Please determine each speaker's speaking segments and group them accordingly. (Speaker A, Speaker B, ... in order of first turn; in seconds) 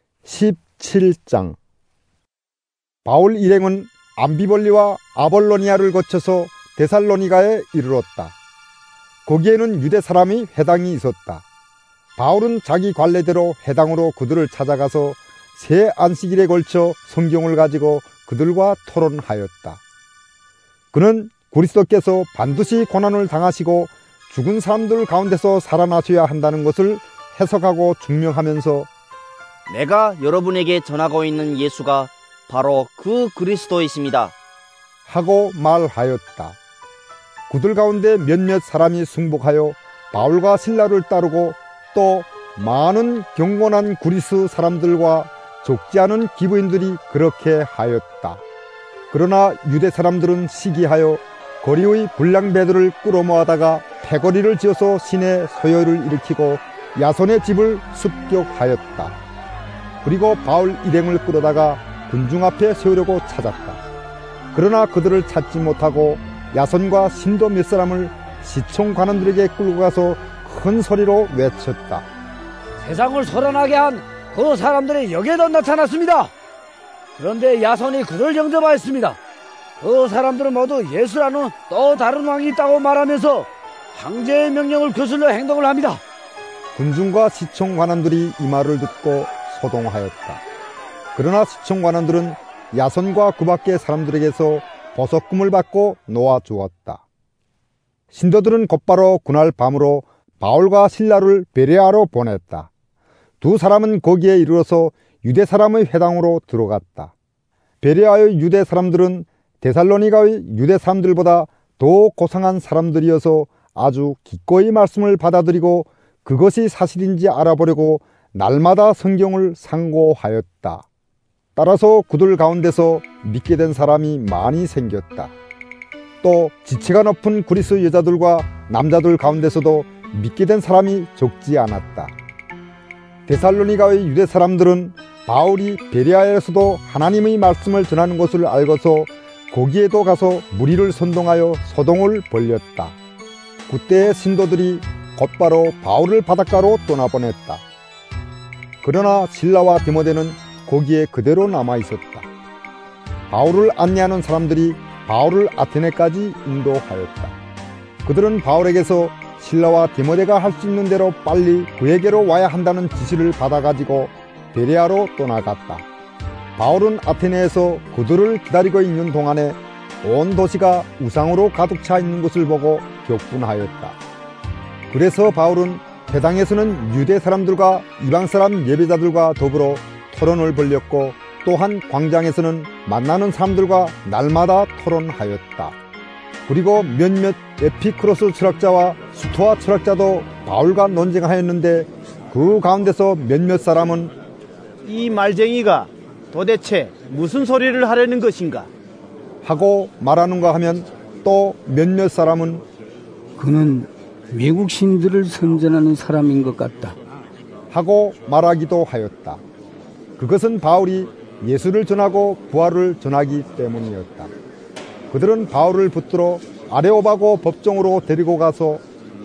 Speaker A: 0.2-1.6, 3.0-8.3, 9.2-11.4, 12.2-19.8, 20.9-28.9, 35.1-36.6, 37.5-48.4, 49.1-59.2, 60.0-63.8, 64.5-72.1, 86.8-90.4, 91.1-97.0, 98.1-102.7, 103.4-107.1, 107.8-120.8, 121.5-125.3, 126.2-132.1, 133.3-142.9, 143.7-147.6, 148.8-152.3, 153.3-157.3, 158.0-165.8, 166.6-174.0, 174.9-185.8, 186.5-194.1, 199.4-202.6, 207.7-209.4, 210.2-214.3, 215.1-218.8
Speaker B: 29.7-34.3
Speaker C: 72.8-76.3, 77.2-79.2, 79.8-86.0
Speaker D: 194.8-198.7
Speaker E: 203.4-206.9